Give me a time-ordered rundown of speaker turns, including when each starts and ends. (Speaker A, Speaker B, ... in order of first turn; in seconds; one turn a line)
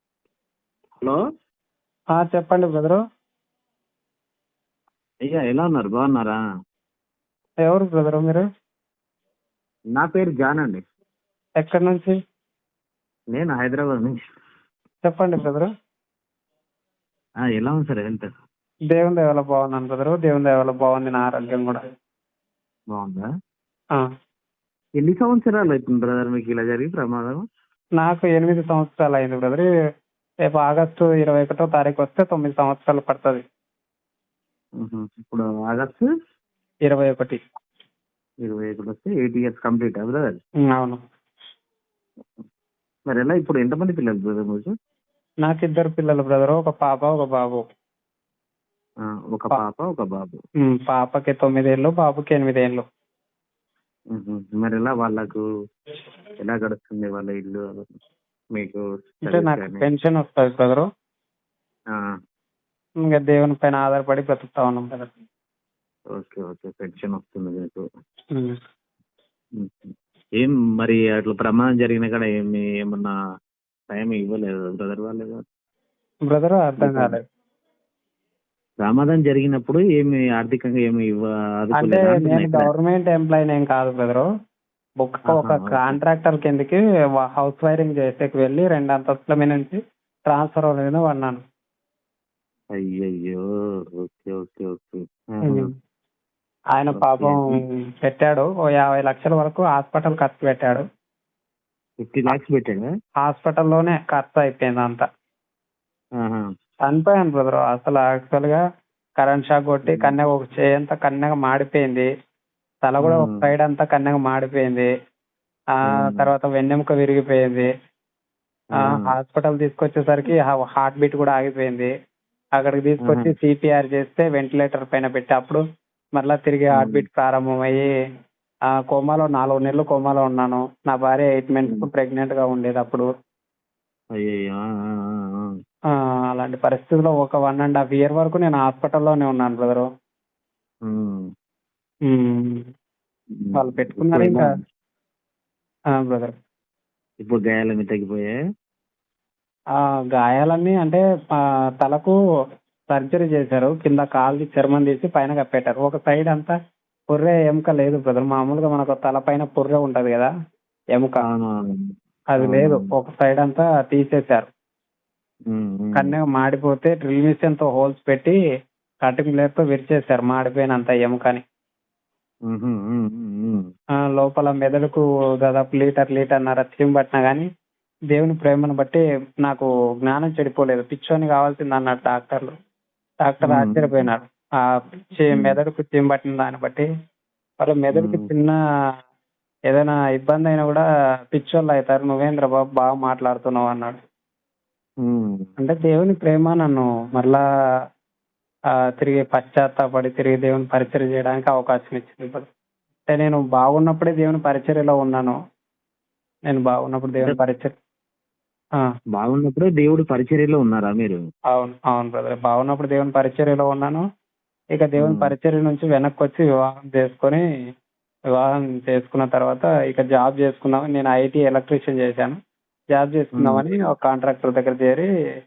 Speaker A: 2.1-3.0
Speaker B: 5.3-6.4
Speaker A: 7.6-8.4
Speaker B: 9.9-10.8
Speaker A: 11.6-12.2
Speaker B: 13.3-14.2
Speaker A: 15.1-15.7
Speaker B: 17.4-18.3
Speaker A: 18.9-21.8
Speaker B: 22.9-23.2
Speaker B: 25.0-27.4
Speaker A: 28.0-29.7
Speaker A: 30.4-33.4
Speaker B: 34.8-36.1
Speaker A: 36.9-37.4
Speaker B: 38.4-40.4
Speaker A: 40.7-41.0
Speaker B: 43.1-44.7
Speaker A: 45.4-47.6
Speaker B: 49.0-50.4
Speaker A: 50.6-52.8
Speaker B: 54.1-55.4
Speaker B: 56.4-57.9
Speaker B: 58.5-59.9
Speaker A: 59.3-60.9
Speaker A: 63.0-65.1
Speaker B: 66.2-67.8
Speaker B: 69.6-73.1
Speaker B: 73.9-75.4
Speaker A: 76.3-77.2
Speaker B: 76.8-77.2
Speaker B: 78.8-82.7
Speaker A: 81.8-84.3
Speaker A: 85.0-91.4
Speaker B: 85.3-86.0
Speaker B: 92.8-93.4
Speaker B: 94.0-95.7
Speaker A: 95.5-95.7
Speaker A: 96.8-100.8
Speaker B: 97.0-97.6
Speaker B: 102.0-102.9
Speaker A: 103.2-105.0
Speaker A: 106.9-108.6
Speaker A: 109.2-112.1
Speaker B: 109.9-110.2
Speaker A: 112.9-114.9
Speaker B: 113.0-113.5
Speaker A: 115.8-117.7
Speaker B: 115.9-116.3
Speaker B: 118.8-119.1
Speaker A: 118.8-121.9
Speaker A: 122.6-125.6
Speaker B: 123.0-123.3
Speaker A: 126.2-127.9
Speaker B: 126.8-127.0
Speaker A: 128.8-133.1
Speaker B: 134.2-135.5
Speaker A: 136.3-139.9
Speaker B: 140.9-141.3
Speaker A: 142.1-142.6
Speaker B: 143.4-144.5
Speaker A: 143.6-144.5
Speaker A: 146.0-146.3
Speaker B: 147.2-148.3
Speaker A: 150.1-152.2
Speaker A: 152.9-156.6
Speaker A: 157.1-160.3
Speaker A: 161.0-161.2
Speaker B: 161.3-161.8
Speaker A: 162.3-164.5
Speaker B: 162.4-162.9
Speaker B: 165.5-166.2
Speaker A: 165.9-168.4
Speaker A: 169.0-171.4
Speaker B: 172.5-173.7
Speaker A: 174.1-177.5
Speaker A: 178.1-182.5
Speaker A: 183.2-186.9
Speaker B: 183.4-183.9
Speaker B: 185.3-185.6
Speaker A: 187.6-188.6
Speaker B: 187.9-188.3
Speaker A: 189.7-190.8
Speaker A: 191.3-194.0
Speaker B: 195.0-195.5
Speaker A: 195.6-197.4
Speaker A: 199.0-202.5
Speaker A: 203.1-205.4
Speaker A: 206.5-207.8
Speaker B: 209.2-211.2
Speaker A: 211.5-214.0
Speaker A: 214.8-217.4
Speaker B: 215.0-215.3
Speaker A: 218.3-222.4
Speaker A: 222.9-225.1
Speaker B: 223.3-223.6